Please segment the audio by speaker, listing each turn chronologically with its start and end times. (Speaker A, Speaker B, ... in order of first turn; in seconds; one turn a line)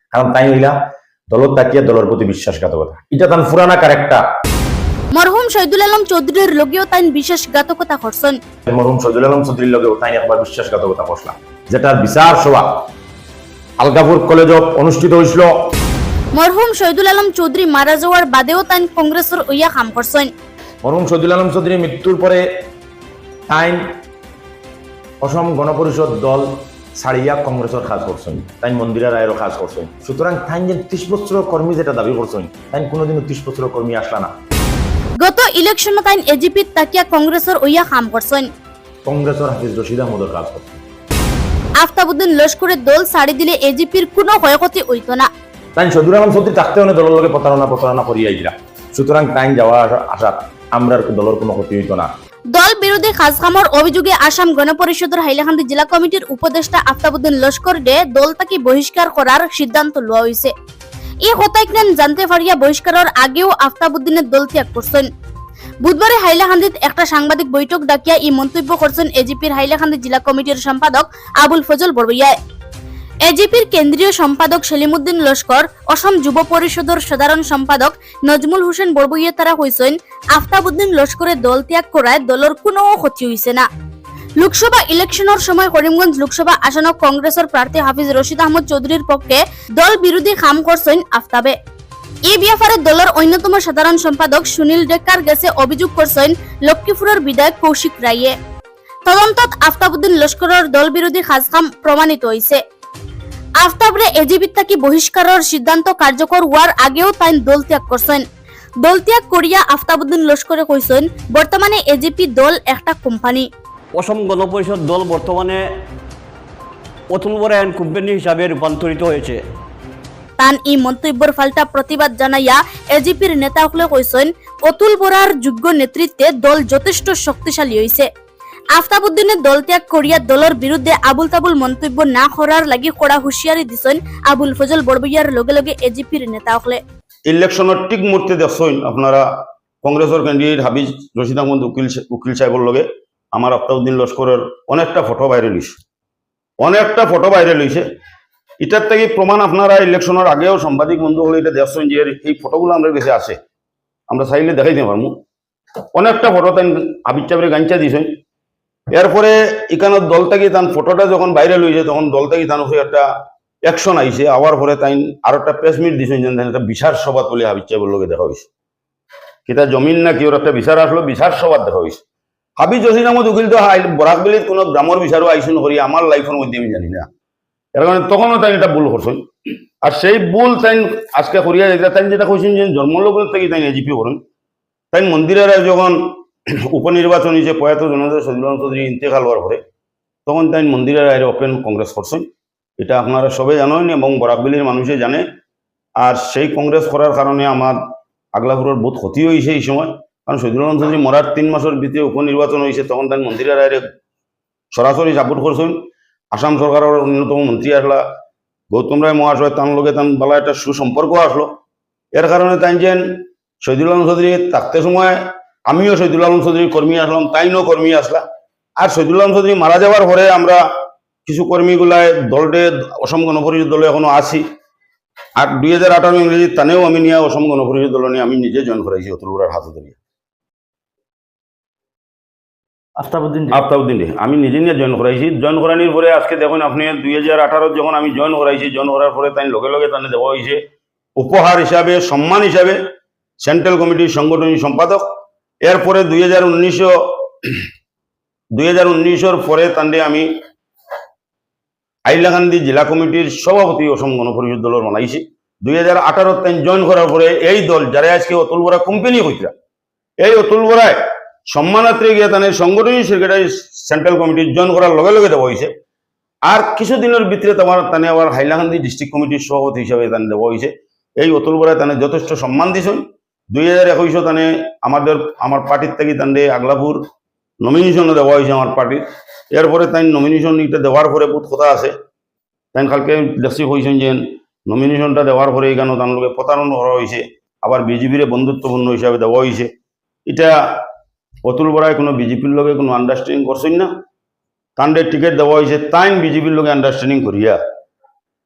Speaker A: 0.1-0.7
Speaker A: 1.3-4.2
Speaker B: 5.1-8.3
Speaker A: 8.7-12.8
Speaker A: 13.8-15.5
Speaker B: 16.3-20.3
Speaker A: 20.8-22.4
Speaker A: 23.5-23.8
Speaker A: 25.2-34.3
Speaker B: 35.2-38.5
Speaker A: 39.0-40.8
Speaker B: 41.8-45.3
Speaker A: 45.8-52.1
Speaker B: 52.5-60.5
Speaker B: 61.2-65.1
Speaker B: 65.8-72.3
Speaker B: 73.2-83.7
Speaker B: 84.4-91.5
Speaker B: 92.3-98.3
Speaker B: 99.0-102.6
Speaker B: 103.6-108.2
Speaker B: 108.8-113.5
Speaker C: 113.9-115.7
Speaker C: 117.1-119.4
Speaker B: 120.4-128.1
Speaker B: 128.7-136.8
Speaker D: 137.3-139.2
Speaker D: 139.8-145.8
Speaker D: 146.6-147.8
Speaker D: 148.6-153.4
Speaker D: 154.1-155.2
Speaker D: 155.9-158.1
Speaker D: 158.9-163.1
Speaker D: 163.7-168.5
Speaker D: 169.5-172.0
Speaker D: 172.6-177.1
Speaker D: 177.7-179.2
Speaker D: 179.8-184.2
Speaker D: 184.9-186.2
Speaker D: 186.7-189.6
Speaker D: 190.2-192.3
Speaker D: 192.8-195.2
Speaker D: 196.0-197.8
Speaker D: 198.3-203.8
Speaker D: 204.7-205.8
Speaker D: 206.3-208.0
Speaker D: 208.7-211.5
Speaker D: 212.1-215.2
Speaker D: 215.7-218.2
Speaker D: 218.8-220.6
Speaker D: 221.2-224.4
Speaker D: 225.4-230.0
Speaker D: 233.5-240.6
Speaker D: 241.2-242.8
Speaker D: 243.4-245.0
Speaker D: 245.6-247.7
Speaker D: 248.5-250.3
Speaker D: 252.1-259.5
Speaker D: 260.2-260.9
Speaker D: 261.5-265.7
Speaker D: 266.5-277.0
Speaker D: 277.6-281.9
Speaker D: 282.7-289.7
Speaker D: 290.3-290.8
Speaker D: 291.4-293.9
Speaker D: 294.8-297.6